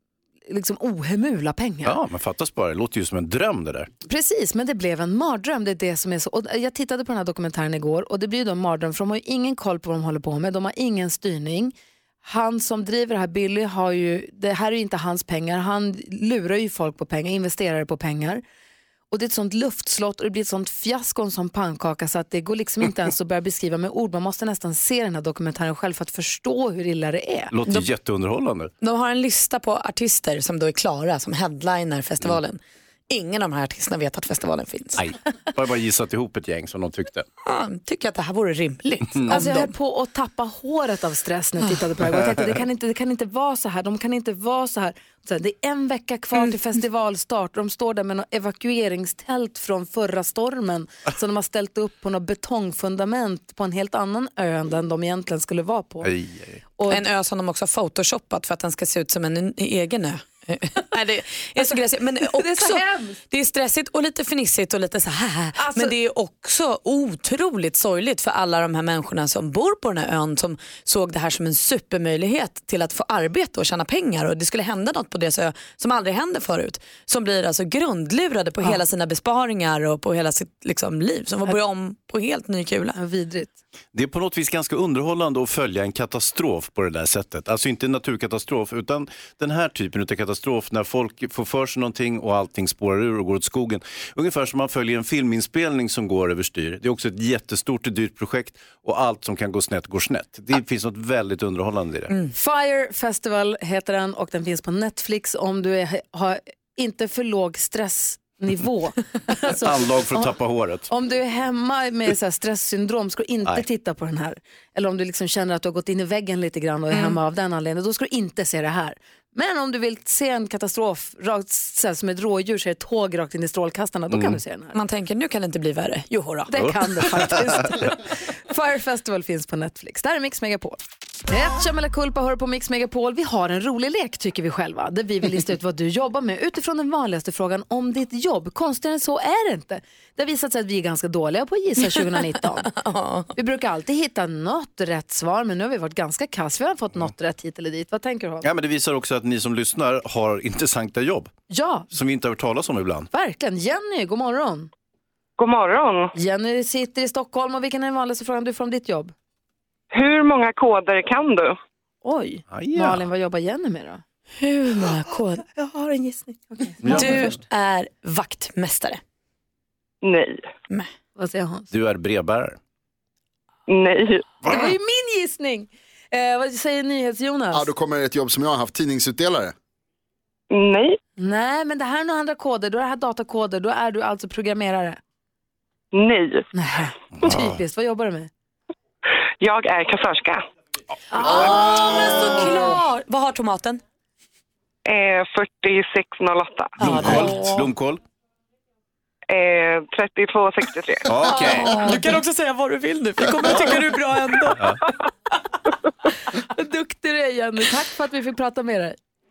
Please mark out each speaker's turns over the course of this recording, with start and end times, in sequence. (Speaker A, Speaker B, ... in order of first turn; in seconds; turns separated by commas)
Speaker A: 0.5-2.0, Speaker B: 1.8-3.9, Speaker A: 4.0-18.4, Speaker A: 19.1-27.5, Speaker B: 27.5-28.7, Speaker C: 28.8-35.0, Speaker B: 35.0-37.3, Speaker C: 37.5-39.7, Speaker A: 39.3-56.1, Speaker B: 56.0-56.6, Speaker A: 56.8-57.0, Speaker C: 56.9-83.0, Speaker A: 62.3-63.2, Speaker A: 65.6-65.9, Speaker A: 83.0-83.5, Speaker B: 83.9-102.1, Speaker A: 102.3-110.3, Speaker B: 109.5-110.9, Speaker A: 110.9-124.8, Speaker C: 116.9-117.2, Speaker B: 124.1-124.4, Speaker C: 124.7-126.5, Speaker A: 126.5-142.7, Speaker B: 126.5-127.9, Speaker C: 142.7-143.3, Speaker A: 143.3-148.5, Speaker B: 148.4-151.3, Speaker A: 151.5-151.9, Speaker B: 151.9-153.1, Speaker A: 153.1-154.7, Speaker D: 155.4-156.1, Speaker A: 156.1-159.1, Speaker D: 159.9-161.6, Speaker A: 162.0-164.0, Speaker B: 162.5-163.1, Speaker C: 164.4-165.5, Speaker A: 165.5-167.4, Speaker B: 166.8-167.3, Speaker C: 166.9-169.0, Speaker D: 170.0-170.4, Speaker A: 171.2-171.7, Speaker B: 171.7-172.6, Speaker D: 173.7-174.3, Speaker A: 174.4-177.7, Speaker E: 177.5-179.5, Speaker D: 180.5-181.0, Speaker A: 181.2-185.0, Speaker D: 185.9-186.5, Speaker A: 186.6-188.3, Speaker B: 187.2-187.6, Speaker D: 189.4-190.4, Speaker C: 191.1-193.8, Speaker A: 191.1-192.7, Speaker D: 194.9-196.8, Speaker B: 196.8-198.0, Speaker C: 196.8-197.6, Speaker D: 199.3-201.1, Speaker B: 201.1-201.8, Speaker A: 201.3-201.9, Speaker C: 201.4-204.6, Speaker A: 206.3-208.9